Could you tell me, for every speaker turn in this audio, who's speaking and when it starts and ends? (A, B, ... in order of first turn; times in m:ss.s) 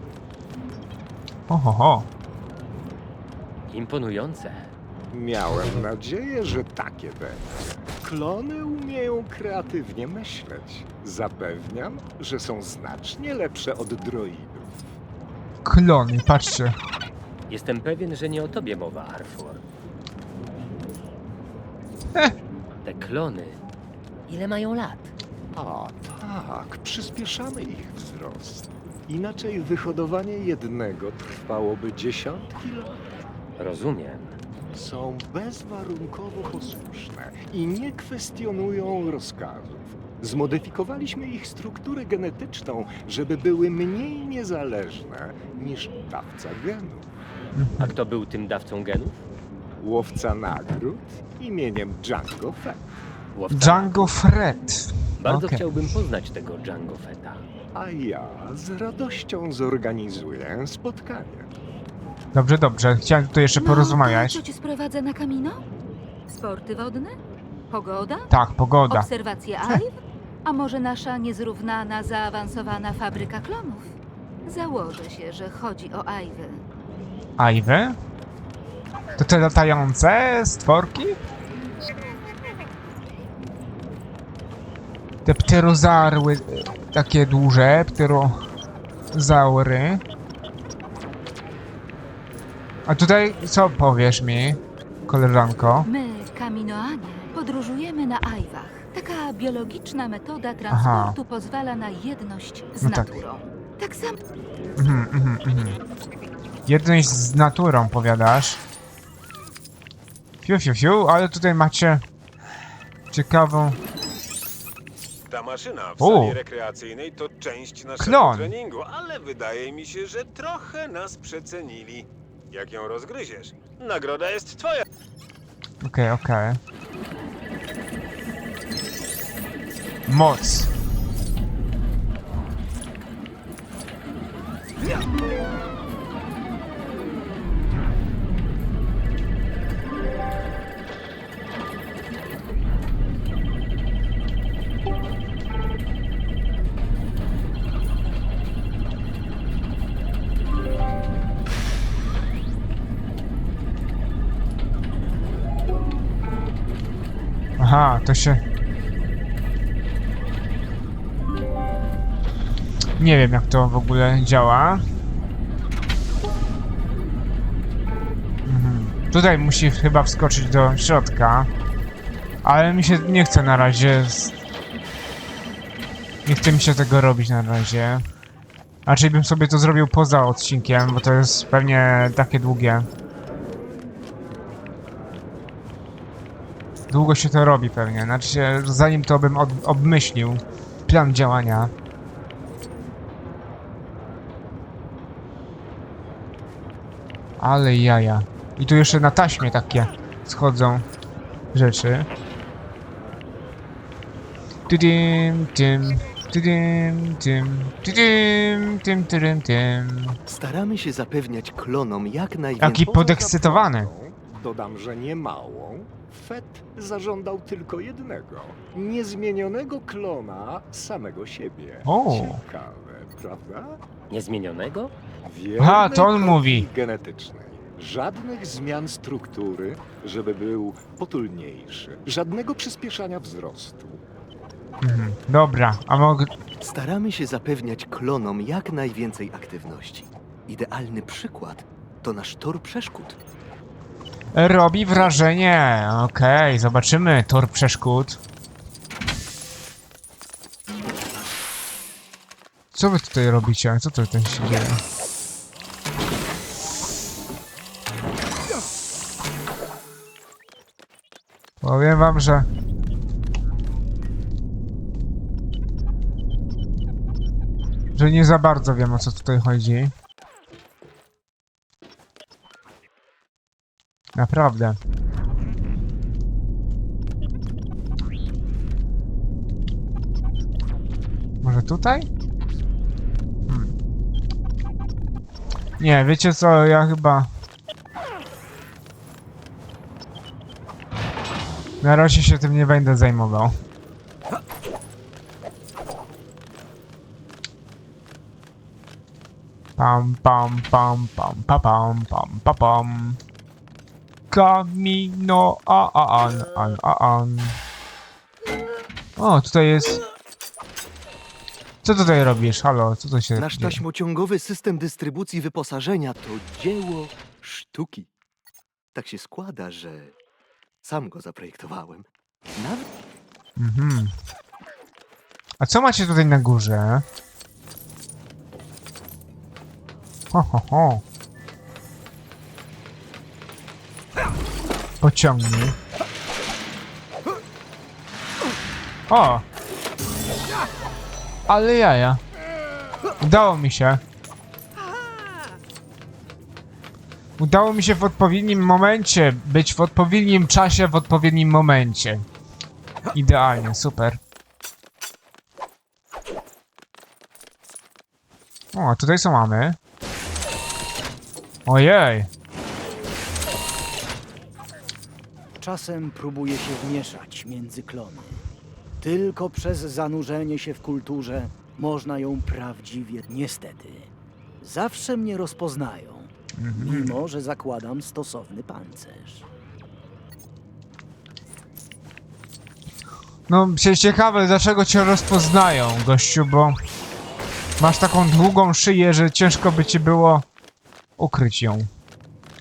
0:01.5-0:02.1 A
0:03.7-0:04.7 B
0:05.1-0:14.8 C
0:15.6-0:16.7 A
0:17.5-0:19.6 B
0:22.8-0:23.6 B
0:24.3-0:25.1 B
0:25.6-0:33.1 C
0:33.6-0:34.4 B
0:34.7-0:47.1 C
0:47.6-0:47.9 A
0:47.8-0:49.2 B
0:49.8-0:52.9 C
0:53.3-0:54.2 B
0:53.5-0:55.7 A
0:55.2-0:57.4 B
0:57.7-1:01.6 C
1:02.3-1:04.4 A
1:03.6-1:05.6 D
1:06.3-1:07.2 D
1:07.7-1:08.3 D
1:08.3-1:09.1 A
1:08.9-1:16.6 D
1:17.4-1:18.0 A
1:19.2-1:21.2 A
1:25.3-1:28.4 A
1:29.1-1:30.0 A
1:32.9-1:35.9 A
1:35.9-1:44.2 D
1:40.7-1:41.2 A
1:42.8-1:43.2 A
1:44.8-1:45.8 A
1:46.7-1:48.6 A
1:50.4-1:52.0 A
1:53.1-1:53.8 A
1:55.3-2:04.8 E
1:56.0-1:56.4 A
1:58.0-1:58.5 A
2:05.8-2:06.6 A
2:10.1-2:10.7 A
2:37.6-2:38.4 A
2:43.0-2:44.8 A
2:48.5-2:51.5 A
2:52.4-2:54.4 A
2:56.3-2:58.0 A
2:58.9-3:02.9 A
3:06.9-3:11.7 A
3:17.4-3:20.8 A
3:21.5-3:22.1 A
3:24.7-3:30.2 A
3:30.3-3:32.8 F
3:32.6-3:33.9 A
3:32.6-3:43.8 C
3:41.9-3:42.4 A
3:44.1-3:44.9 B
3:45.2-3:54.0 C
3:45.6-3:46.7 A
3:54.8-3:56.3 A
3:56.6-4:03.2 F
4:04.4-4:08.2 A
4:12.7-4:14.8 A
4:21.6-4:22.5 A
4:28.0-4:29.9 A
4:34.2-4:34.8 A
4:41.4-4:42.1 A
4:43.5-4:43.7 A
4:45.8-4:47.3 A
4:51.8-4:53.6 A
4:59.8-5:03.2 A
5:04.3-5:07.6 A
5:09.2-5:10.0 A
5:11.8-5:13.8 A
5:13.4-5:18.1 F
5:18.9-5:20.1 F
5:20.8-5:22.9 F
5:23.6-5:24.1 A
5:25.6-5:27.0 A
5:30.3-5:31.0 A
5:35.0-5:35.8 A
5:39.1-5:39.4 A
5:41.5-5:42.2 A
5:43.2-5:44.0 A
5:47.4-5:52.3 A
5:53.1-5:54.2 A
5:58.7-5:59.8 A
6:01.7-6:02.3 A
6:05.6-6:08.4 G
6:09.0-6:19.4 G
6:16.6-6:17.2 A
6:23.5-6:26.8 A
6:27.8-6:30.5 A
6:31.2-6:31.9 A